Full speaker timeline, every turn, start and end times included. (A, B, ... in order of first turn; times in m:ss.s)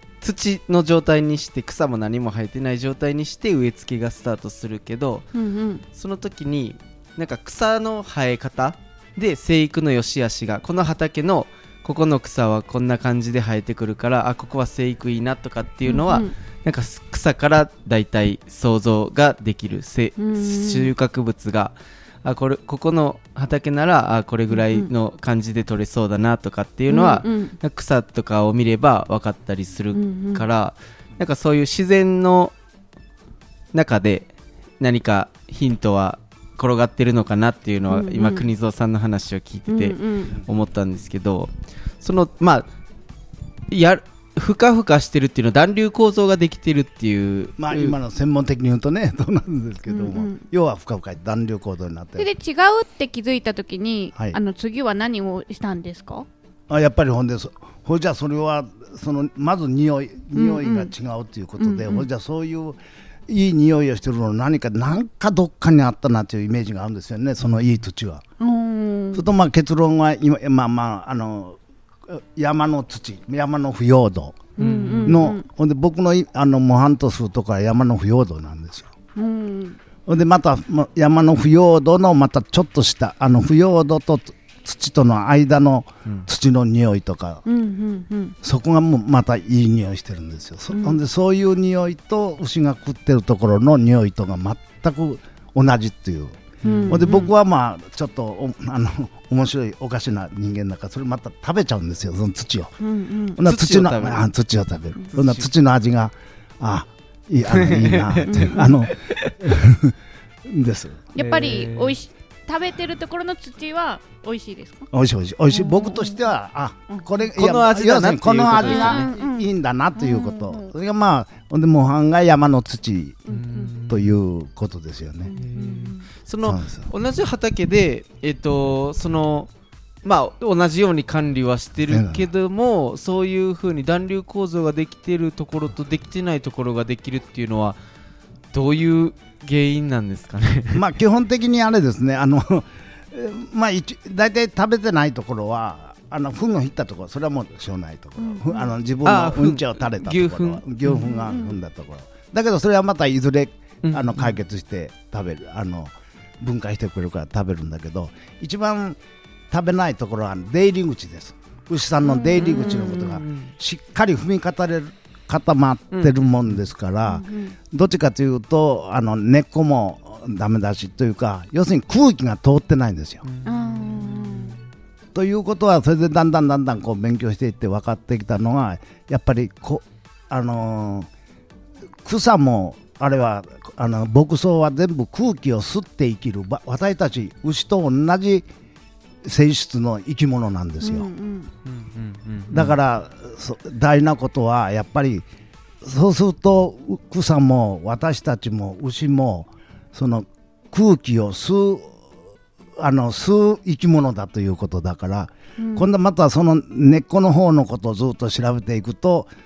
0:00.2-0:05.3 A
0:05.3-0:05.8 B
0:05.9-0:32.5 A
0:15.8-0:16.3 B
0:20.2-0:20.9 B
0:24.5-0:24.9 B
0:26.9-0:27.6 B
0:29.9-0:30.4 B
0:33.7-0:34.3 A
0:34.8-0:42.7 A
0:37.9-0:38.5 B
0:39.7-0:40.4 B
0:43.7-0:48.0 A
0:47.6-0:52.3 C
0:49.9-0:50.5 B
0:52.2-0:56.3 B
0:56.7-1:08.2 C
1:00.3-1:00.9 B
1:01.6-1:02.1 B
1:08.4-1:09.3 B
1:09.1-1:14.4 C
1:14.6-1:15.4 B
1:14.6-1:15.3 A
1:15.0-1:18.9 C
1:19.2-1:19.8 B
1:20.1-1:27.4 C
1:27.5-1:28.4 B
1:28.4-1:42.8 C
1:30.7-1:31.0 B
1:36.6-1:37.3 A
1:36.6-1:37.3 B
1:42.8-1:43.4 B
1:43.4-1:51.0 C
1:43.4-1:44.2 A
1:45.1-1:45.5 A
1:47.5-1:49.5 A
1:48.3-1:48.7 B
1:51.1-1:54.9 B
1:51.2-1:52.0 A
1:54.9-2:03.2 C
1:55.5-1:56.3 B
1:56.9-1:57.2 B
1:57.4-1:59.1 A
1:58.6-2:00.7 B
2:03.2-2:03.7 B
2:03.3-2:04.1 A
2:03.8-2:05.3 C
2:05.2-2:06.1 B
2:05.4-2:09.5 A
2:06.4-2:06.9 C
2:10.0-2:17.8 A
2:11.9-2:12.2 C
2:18.5-2:20.8 A
2:20.7-2:39.0 C
2:28.2-2:28.7 B
2:29.0-2:31.1 A
2:31.0-2:31.6 B
2:33.8-2:34.4 A
2:39.5-2:53.2 C
2:42.0-2:42.9 B
2:42.4-2:43.5 A
2:45.9-2:46.6 A
2:47.0-2:47.6 B
2:53.2-2:54.6 A
2:53.4-2:54.6 B
2:55.1-3:01.1 C
3:02.0-3:08.4 C
3:09.2-3:11.1 C
3:10.8-3:11.5 B
3:11.6-3:12.8 A
3:12.5-3:15.2 C
3:15.8-3:21.9 C
3:22.8-3:29.3 C
3:25.6-3:25.9 B